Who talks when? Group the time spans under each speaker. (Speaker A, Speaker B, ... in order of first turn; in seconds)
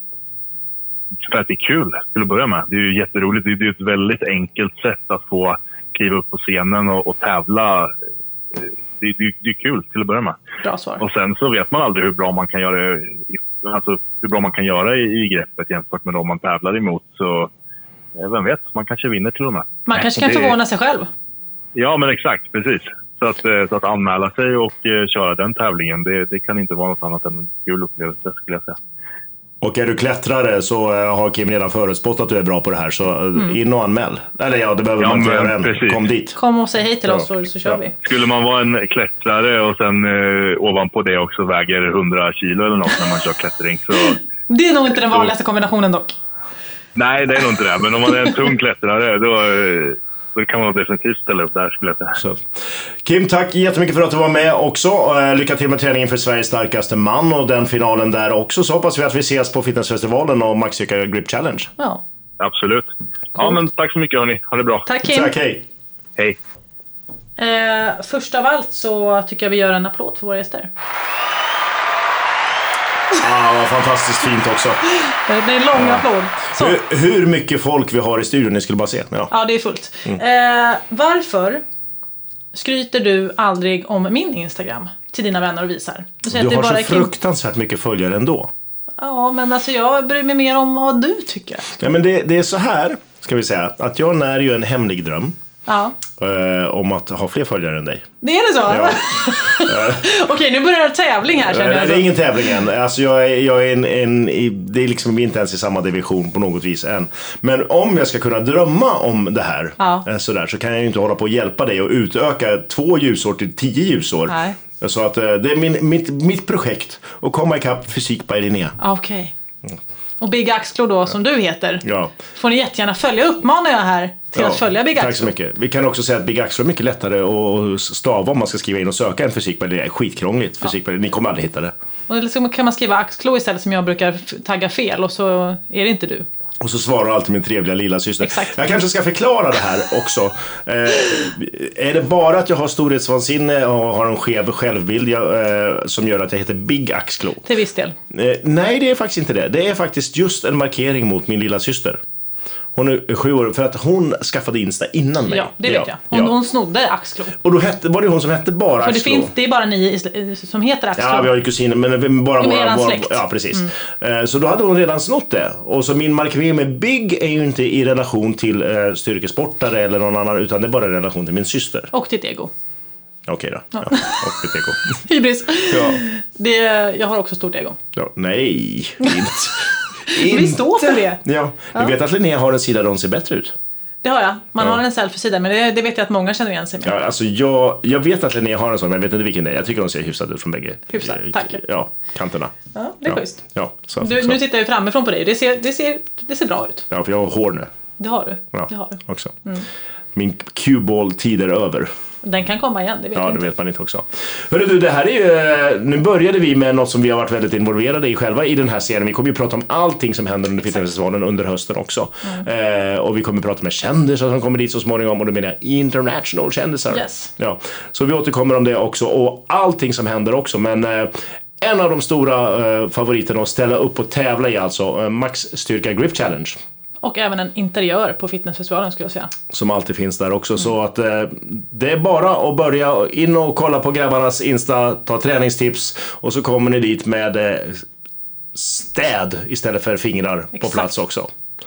Speaker A: 1.2-7.9, 8.5-10.4, 11.0-17.5, 18.1-20.5, 21.7-28.8, 35.0-36.0, 38.0-44.2, 46.9-52.2, 62.4-64.9
Speaker B: 10.6-11.0, 19.9-21.1, 36.4-37.9, 44.5-46.1, 64.8-65.3, 67.4-70.7, 75.0-76.8, 79.3-81.6, 82.5-87.1, 89.0-91.8, 95.7-95.9, 98.2-102.1, 109.8-110.0, 114.3-114.6, 118.8-119.3, 120.2-125.3, 132.1-136.3, 138.2-138.5, 147.4-147.9, 155.3-157.3, 158.8-161.3, 162.4-163.7, 171.9-172.5, 173.8-174.2, 175.0-177.8, 180.1-181.2, 184.0-186.9, 190.9-191.6, 192.7-193.4, 194.0-196.8, 198.0-199.7, 202.2-203.4, 216.9-217.3, 227.0-229.3, 240.6-240.8
Speaker C: 29.6-36.4, 37.1-37.8, 52.2-52.4, 53.0-61.7, 65.0-65.6, 73.1-74.8, 75.7-79.3, 86.3-88.5, 91.8-95.3, 96.2-98.1, 98.7-100.0, 101.5-118.8, 121.8-122.1, 124.3-131.7, 136.6-147.4, 148.1-152.0, 152.7-156.3, 157.4-159.3, 161.0-171.9, 173.3-175.0, 175.7-176.0, 177.9-183.5, 186.8-192.5, 193.1-194.4, 196.9-197.7, 198.5-199.3, 200.1-201.9, 203.1-226.6, 229.5-237.8, 238.5-241.3